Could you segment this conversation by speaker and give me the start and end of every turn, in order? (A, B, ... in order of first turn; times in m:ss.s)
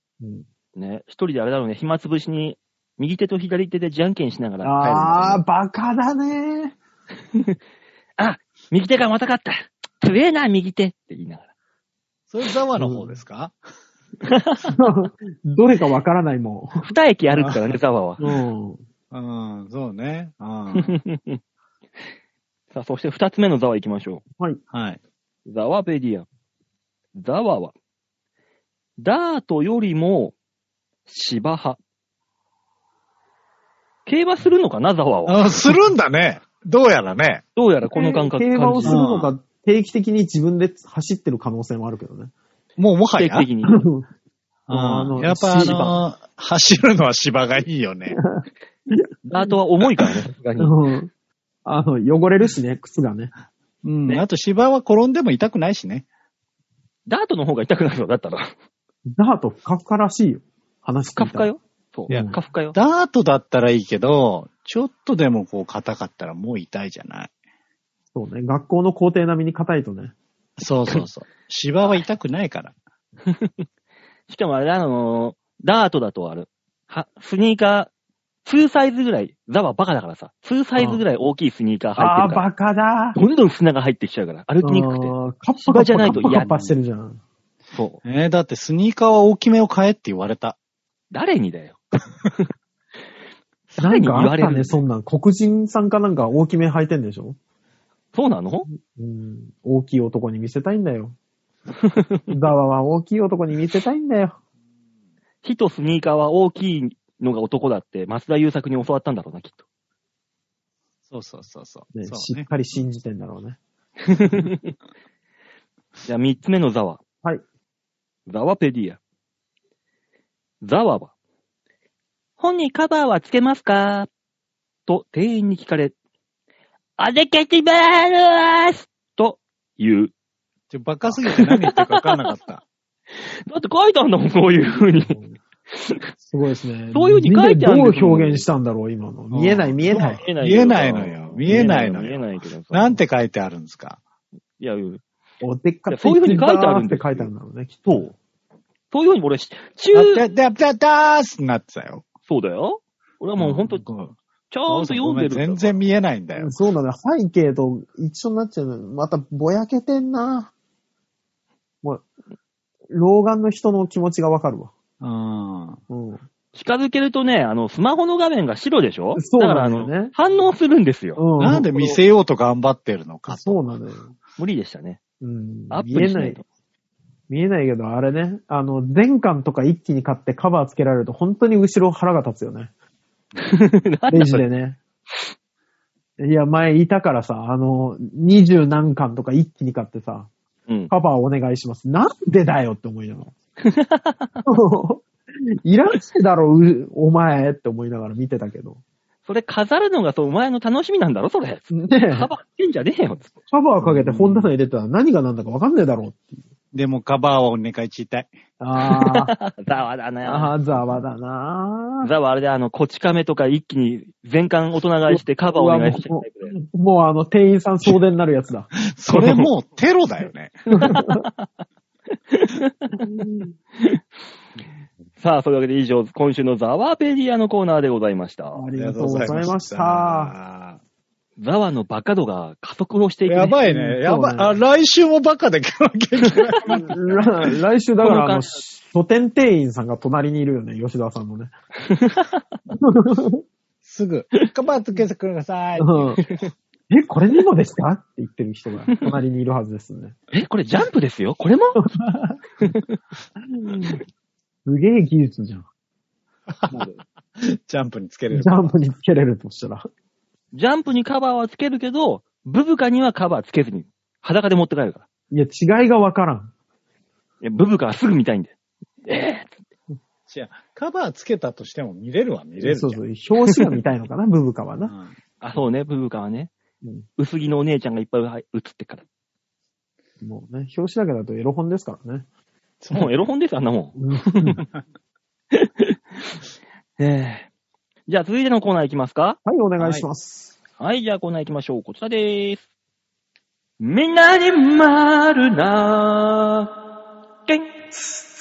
0:00.2-0:00.4 A
0:00.7-0:05.4 B
0:04.6-0:06.8 A
0:08.2-0:11.5 B
0:12.3-0:13.5 C
0:12.8-0:13.2 A
0:14.2-0:14.7 B
0:14.8-0:16.9 A
0:16.8-0:18.2 B
0:18.2-0:18.8 A
0:19.1-0:21.0 C
0:20.8-0:21.4 B
0:22.7-0:24.2 B
0:24.7-0:25.0 C
0:25.4-0:26.2 B
0:27.1-0:27.7 B
0:29.0-0:30.3 B
0:31.1-0:31.8 B
0:34.0-0:35.5 B
0:35.2-0:37.4 C
0:37.6-0:39.0 B
0:37.9-0:42.3 A
0:38.8-0:39.3 C
0:42.8-0:43.5 C
0:43.2-0:43.8 B
0:43.7-0:44.0 A
0:44.7-0:48.2 C
0:44.7-0:45.8 A
0:45.6-0:46.0 B
0:48.1-0:49.1 A
0:49.3-0:50.8 B
0:50.6-0:51.1 A
0:51.6-0:53.3 A
0:53.8-0:56.0 C
0:57.1-0:58.5 B
0:59.1-1:01.5 A
1:01.2-1:02.8 B
1:02.1-1:02.4 A
1:02.1-1:07.3 C
1:08.1-1:10.1 A
1:10.6-1:12.7 C
1:13.3-1:13.6 B
1:14.3-1:17.9 B
1:18.4-1:22.4 B
1:20.8-1:21.0 A
1:22.0-1:23.2 A
1:23.1-1:26.5 B
1:24.6-1:27.2 A
1:26.2-1:26.7 C
1:27.7-1:28.0 B
1:28.0-1:30.6 C
1:31.1-1:31.8 B
1:33.8-1:37.4 A
1:33.8-1:34.8 B
1:38.1-1:38.7 B
1:38.7-1:41.1 A
1:41.8-1:42.3 B
1:42.3-1:44.3 A
1:45.4-1:49.6 B
1:51.1-1:52.8 C
1:51.9-1:53.6 A
1:54.0-1:54.7 B
1:56.0-1:57.0 B
1:58.3-1:59.0 B
2:00.6-2:01.1 B
2:02.4-2:04.1 B
2:04.9-2:05.9 B
2:07.0-2:10.1 B
2:10.7-2:12.6 C
2:11.3-2:12.0 B
2:13.2-2:15.2 B
2:15.0-2:15.4 A
2:15.7-2:16.0 B
2:16.2-2:20.2 A
2:16.9-2:18.4 B
2:19.3-2:24.0 C
2:19.9-2:23.0 B
2:24.6-2:25.0 B
2:25.4-2:28.1 A
2:25.9-2:27.3 B
2:27.9-2:28.1 B
2:28.9-2:30.3 B
2:29.9-2:32.0 C
2:32.3-2:33.8 B
2:33.4-2:34.1 C
2:34.5-2:35.8 B
2:34.7-2:36.6 C
2:36.4-2:40.5 A
2:42.9-2:44.7 A
2:45.0-2:45.8 C
2:45.9-2:46.2 A
2:46.5-2:51.2 B
2:49.1-2:50.1 A
2:51.2-2:52.0 A
2:51.4-2:53.6 C
2:53.3-2:54.1 A
2:54.4-2:55.0 B
2:55.2-2:56.4 A
2:55.7-2:56.4 B
2:57.3-3:02.7 A
3:03.4-3:04.4 B
3:04.1-3:04.8 A
3:06.2-3:10.3 A
3:10.9-3:13.3 A
3:13.6-3:14.4 B
3:14.4-3:15.0 A
3:15.6-3:18.8 A
3:19.2-3:23.3 B
3:21.7-3:22.3 A
3:23.5-3:26.4 A
3:23.8-3:24.5 C
3:26.7-3:28.3 C
3:28.6-3:29.3 A
3:28.8-3:30.6 B
3:30.2-3:32.1 A
3:32.0-3:36.6 B
3:35.1-3:38.7 A
3:38.8-3:40.6 C
3:39.1-3:39.5 B
3:40.8-3:41.2 A
3:40.8-3:41.5 B
3:42.3-3:43.0 B
3:43.0-3:43.5 A
3:45.2-3:48.7 B
3:48.5-3:50.3 A
3:48.8-3:50.8 C
3:51.4-3:53.6 B
3:53.2-3:57.5 C
3:53.6-3:54.6 A
3:56.7-4:01.5 A
3:58.0-3:58.6 B
4:01.8-4:02.4 B
4:02.8-4:03.4 A
4:03.8-4:06.5 C
4:05.8-4:06.2 A
4:06.9-4:10.2 A
4:10.3-4:11.8 B
4:11.8-4:12.4 A
4:12.6-4:13.0 B
4:13.4-4:14.0 A
4:14.6-4:15.6 A
4:16.5-4:16.8 C
4:16.7-4:17.0 B
4:17.4-4:18.8 C
4:18.3-4:19.9 A
4:20.5-4:25.0 B
4:25.3-4:26.5 A
4:27.4-4:28.5 B
4:29.0-4:29.5 B
4:30.3-4:33.0 C
4:32.6-4:34.9 A
4:34.8-4:35.1 C
4:35.4-4:36.5 B
4:37.2-4:39.0 B
4:40.2-4:42.2 A
4:42.8-4:43.1 C
4:42.9-4:44.6 B
4:44.0-4:44.6 A
4:45.5-4:46.3 B
4:47.0-4:47.5 B
4:48.1-4:49.4 B
4:49.4-4:50.6 A
4:49.8-4:50.0 C
4:50.8-4:52.6 B
4:53.8-4:56.7 B
4:57.4-4:57.7 B